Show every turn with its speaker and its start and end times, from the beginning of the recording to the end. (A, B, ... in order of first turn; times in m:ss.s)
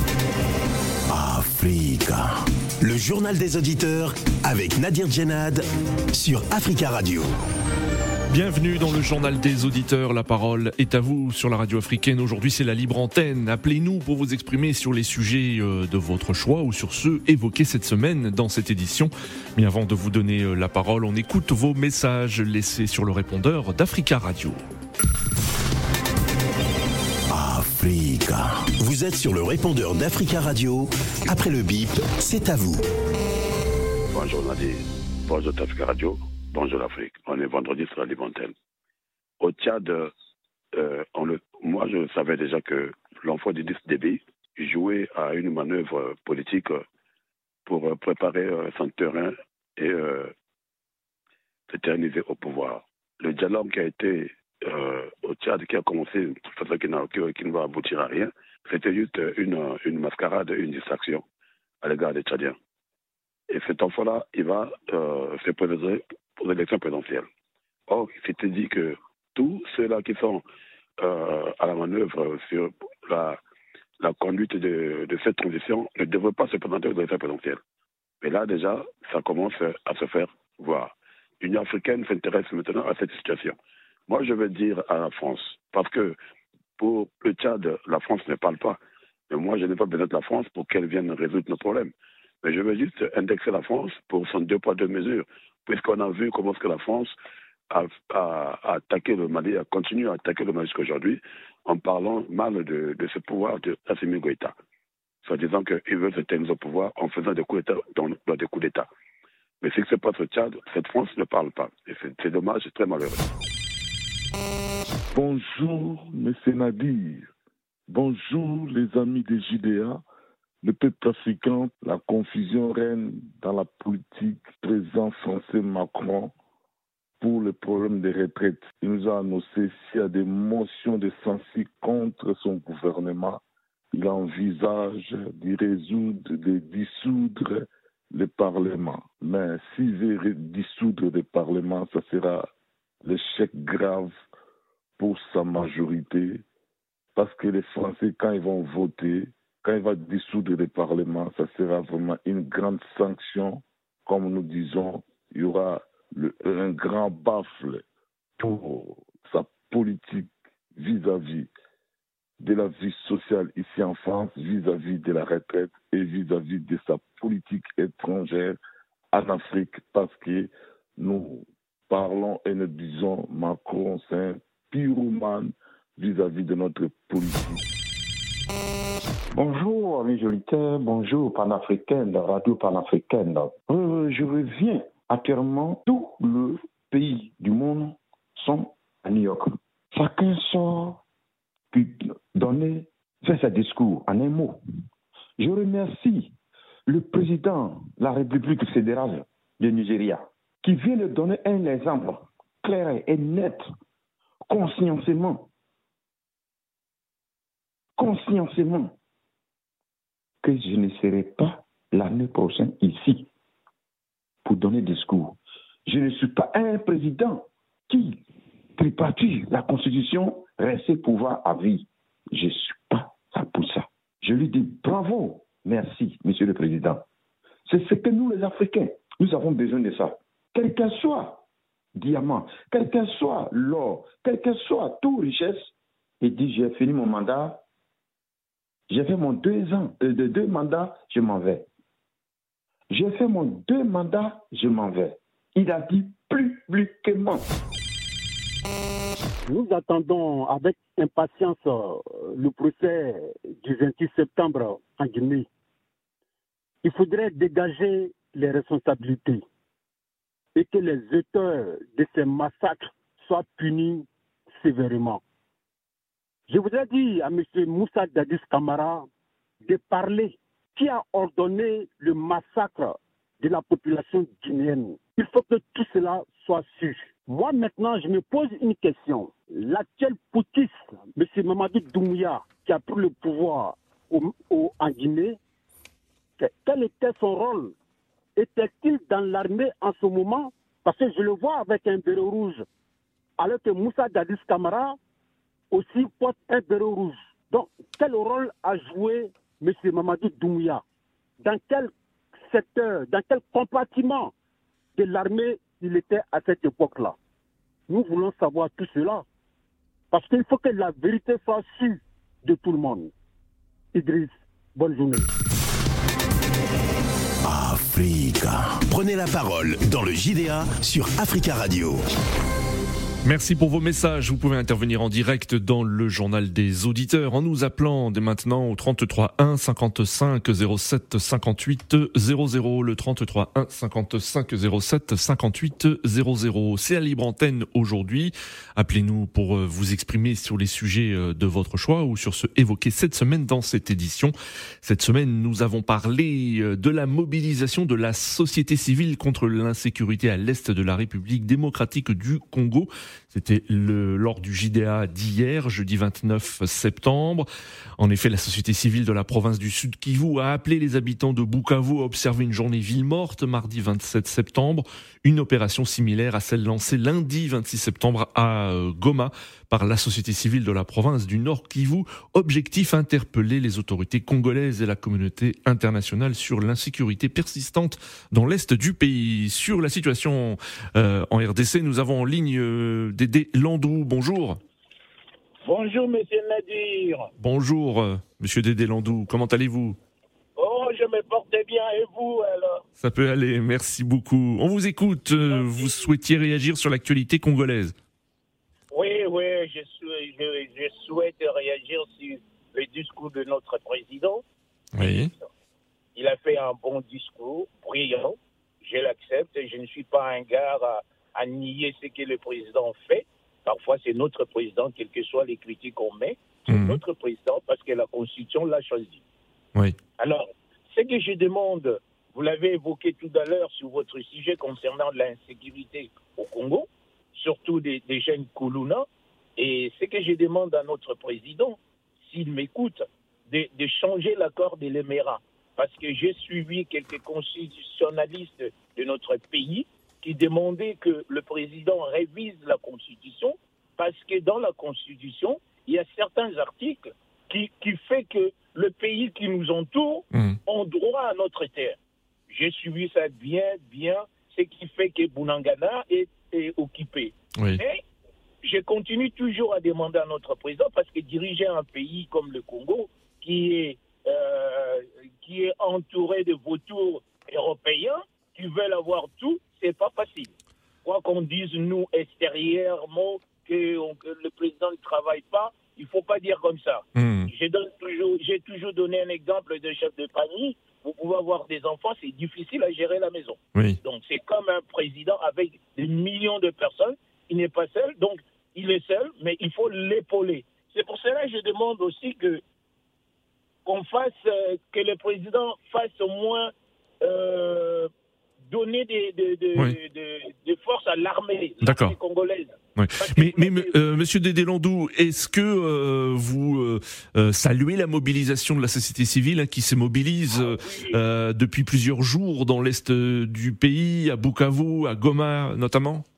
0:01.1-0:07.3 A
0:08.3-0:24.6 B
0:27.3-0:32.8 A
0:34.1-0:38.5 C
0:39.4-0:40.1 C
0:40.7-0:46.8 C
0:47.7-0:50.3 C
0:51.7-1:01.2 C
1:01.8-1:02.6 C
1:03.5-1:07.3 C
1:07.9-1:10.4 C
1:11.0-1:13.4 C
1:14.0-1:17.6 C
1:18.2-1:23.6 C
1:24.1-1:26.2 C
1:26.8-1:31.9 C
1:32.4-1:37.1 C
1:37.7-1:44.5 C
1:45.2-1:48.9 C
1:49.6-1:53.2 C
1:55.1-1:57.3 D
1:57.9-2:00.0 D
2:00.6-2:06.3 D
2:07.2-2:13.4 D
2:13.9-2:22.5 D
2:23.0-2:24.1 D
2:25.0-2:26.4 D
2:27.2-2:37.8 D
2:38.4-2:41.5 D
2:42.4-2:48.6 D
2:49.1-2:57.6 D
2:59.3-3:11.0 E
3:11.7-3:14.6 E
3:15.4-3:16.3 E
3:16.8-3:23.7 E
3:24.5-3:25.5 E
3:28.0-3:28.9 E
3:30.4-3:33.3 E
3:34.4-3:38.2 E
3:38.8-3:47.0 E
3:47.7-3:51.4 E
3:51.9-3:57.6 E
3:58.9-4:01.7 E
4:02.9-4:07.5 E
4:09.5-4:15.5 F
4:16.8-4:19.4 F
4:20.6-4:25.2 F
4:26.5-4:29.1 F
4:29.6-4:45.4 F
4:46.4-4:47.7 F
4:48.4-4:52.6 F
4:53.4-4:55.0 F
4:55.7-5:00.8 F
5:01.4-5:01.9 F
5:02.5-5:04.3 F
5:05.0-5:07.2 F
5:07.9-5:09.2 F
5:10.1-5:13.1 F
5:13.9-5:15.3 F
5:17.4-5:22.0 A
5:23.2-5:57.5 B
5:58.0-6:24.6 B
6:25.6-6:27.3 G
6:27.4-6:30.0 B
6:30.6-6:32.8 G
6:33.0-6:38.0 B
6:35.5-6:36.1 G
6:38.9-6:44.4 G
6:45.0-6:45.3 B
6:46.2-6:59.2 G
6:56.7-6:57.0 B
7:00.2-7:09.1 G
7:09.6-7:32.0 G
7:30.3-7:30.6 B
7:32.5-7:38.0 G
7:38.6-7:50.5 G
7:51.0-8:12.6 G
7:57.2-7:57.5 B
8:03.8-8:04.0 B
8:13.8-8:18.1 G
8:18.7-8:24.0 G
8:21.8-8:22.2 B
8:23.0-8:36.2 B
8:30.5-8:31.2 G